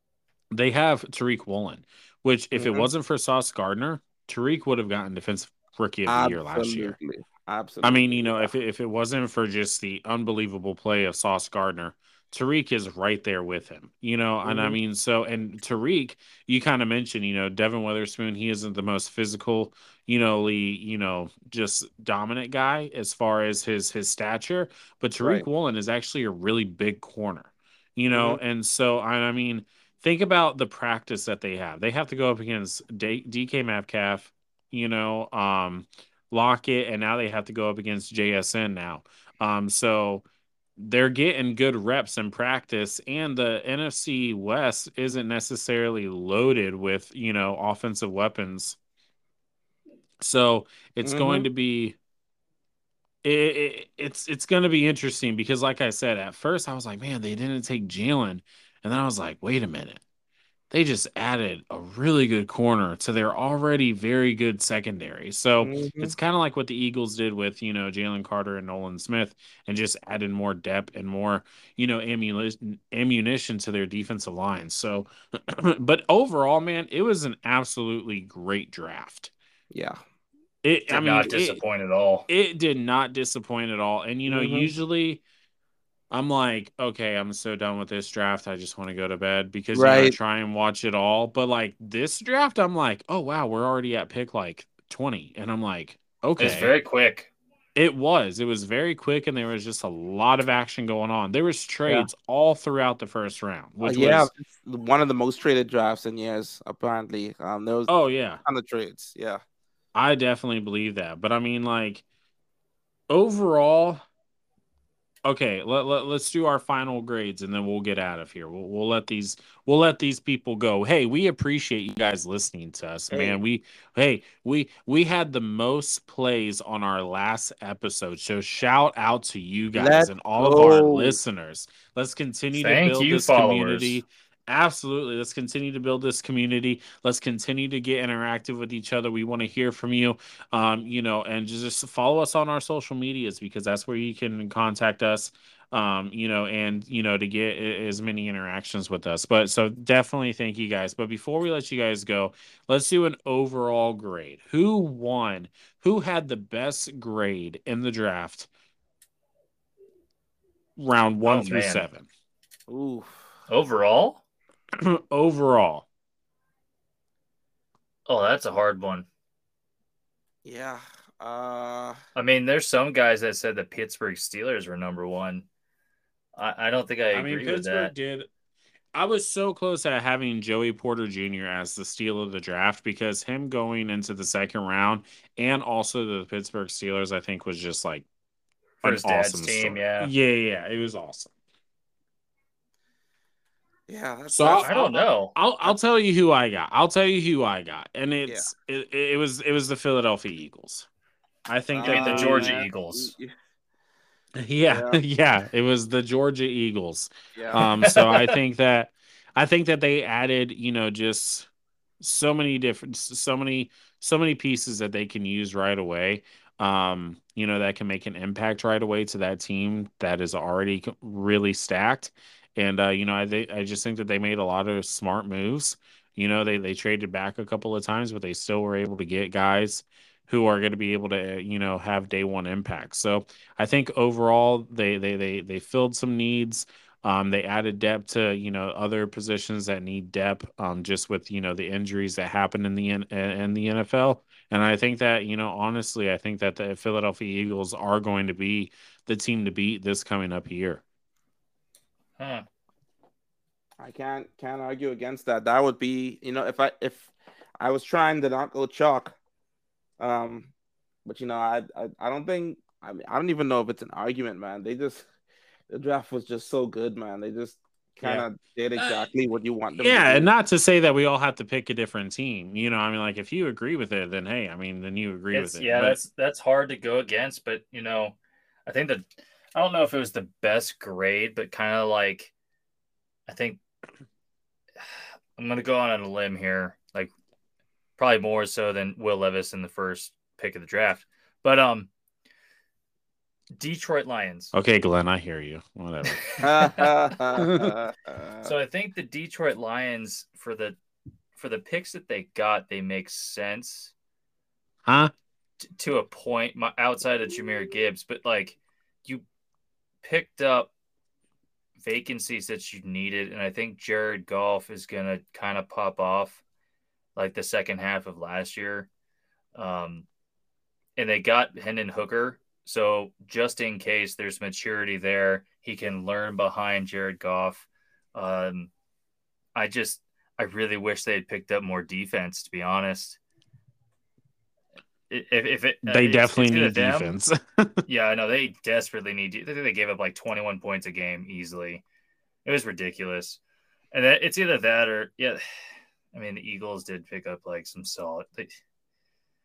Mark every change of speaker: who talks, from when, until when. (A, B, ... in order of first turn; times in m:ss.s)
0:00.5-0:07.0 A
0:02.6-0:02.9 B
0:06.1-0:08.5 B
0:07.8-0:40.2 A
0:14.4-0:14.8 B
0:25.2-0:25.5 B
0:28.1-0:28.4 B
0:40.8-0:48.8 A
0:50.2-0:52.0 A
0:51.0-0:51.5 B
0:53.2-1:00.0 A
1:00.7-1:19.3 A
1:05.6-1:06.1 B
1:19.7-1:20.0 B
1:20.6-1:21.6 A
1:20.9-1:22.3 C
1:22.3-1:25.2 A
1:24.3-1:24.7 B
1:26.1-1:36.7 A
1:29.7-1:30.2 B
1:36.4-1:37.3 C
1:37.8-1:44.3 A
1:43.8-1:47.9 B
1:47.9-1:48.4 A
1:48.4-1:49.4 B
1:50.0-1:52.0 A
1:53.1-1:54.0 A
1:55.3-2:38.5 A
2:03.1-2:03.4 B
2:09.8-2:11.2 B
2:12.5-2:14.0 C
2:40.8-2:42.1 A
2:41.2-2:41.8 C
2:42.7-2:43.3 B
2:43.5-2:44.2 C
2:44.8-2:45.9 A
2:48.1-2:49.1 C
2:50.4-2:52.0 B
2:52.2-2:55.5 C
2:56.4-2:57.9 C
2:57.1-2:58.3 A
2:59.0-3:08.1 A
3:08.8-3:10.1 C
3:08.8-3:11.3 A
3:13.9-3:15.1 B
3:14.3-3:20.9 A
3:14.6-3:15.3 C
3:21.5-3:22.6 A
3:21.7-3:23.3 B
3:21.8-3:23.1 C
3:24.4-3:31.5 A
3:24.7-3:25.0 B
3:27.4-3:27.6 B
3:27.6-3:28.4 C
3:32.0-4:10.8 A
4:12.2-4:12.4 C
4:13.8-4:19.2 B
4:20.0-4:20.5 B
4:21.0-4:25.1 B
4:25.7-4:30.3 B
4:28.8-4:29.1 C
4:29.8-4:36.0 A
4:35.3-4:42.3 C
4:43.3-4:43.6 C
4:45.4-4:47.1 C
4:48.0-4:51.9 C
4:53.5-4:54.5 C
4:54.5-4:56.3 A
4:56.1-4:56.9 C
4:56.4-4:58.5 B
4:57.4-4:57.7 A
4:58.4-5:00.8 C
5:01.4-5:03.9 C
5:04.9-5:05.1 A
5:05.6-5:09.2 C
5:10.0-5:10.7 C
5:11.8-5:16.4 C
5:17.2-5:18.9 C
5:19.6-5:20.1 C
5:21.0-5:28.7 C
5:29.6-5:33.2 C
5:35.1-5:37.1 C
5:35.8-5:37.8 A
5:37.9-5:41.8 C
5:42.4-5:43.4 C
5:43.9-5:45.4 C
5:46.1-5:48.5 C